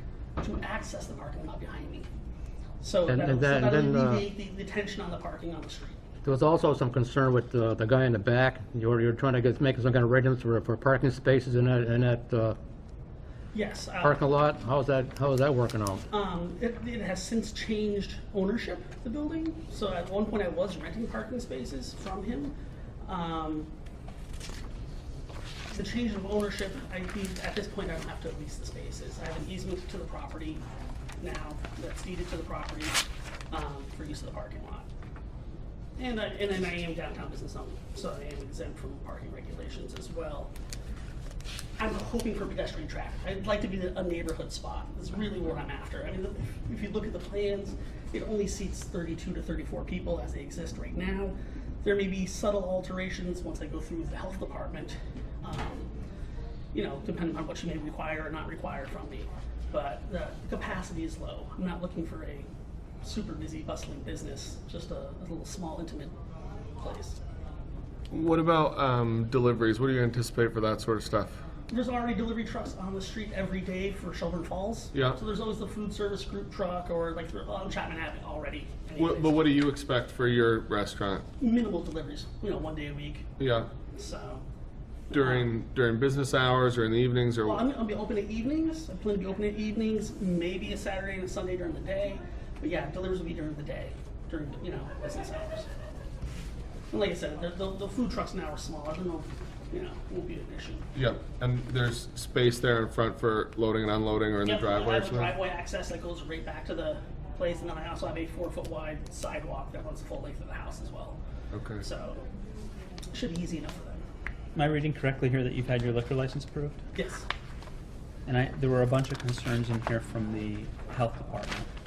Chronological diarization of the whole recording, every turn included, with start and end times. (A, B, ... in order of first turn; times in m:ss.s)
0:00.4-0:02.1 A
0:02.8-0:06.0 A
0:03.1-0:04.2 B
0:06.2-0:12.6 B
0:13.5-0:14.4 A
0:14.0-0:16.0 B
0:16.1-0:23.7 A
0:25.7-0:30.6 A
0:31.2-0:33.0 A
0:33.5-0:34.9 A
0:36.0-0:40.5 A
0:41.8-0:55.9 A
0:56.7-1:02.5 A
1:03.0-1:06.2 A
1:06.8-1:07.2 A
1:08.1-1:11.4 C
1:11.7-1:19.5 A
1:14.9-1:15.2 C
1:19.0-1:21.3 C
1:21.4-1:24.4 A
1:23.4-1:23.7 C
1:25.1-1:25.5 A
1:25.1-1:27.7 C
1:27.4-1:35.7 A
1:36.9-1:40.9 A
1:41.0-1:45.3 C
1:44.4-1:51.2 A
1:51.5-1:51.8 C
1:51.8-1:52.3 A
1:53.1-1:54.0 A
1:54.6-1:56.8 D
1:56.9-1:57.3 A
1:58.3-2:01.7 D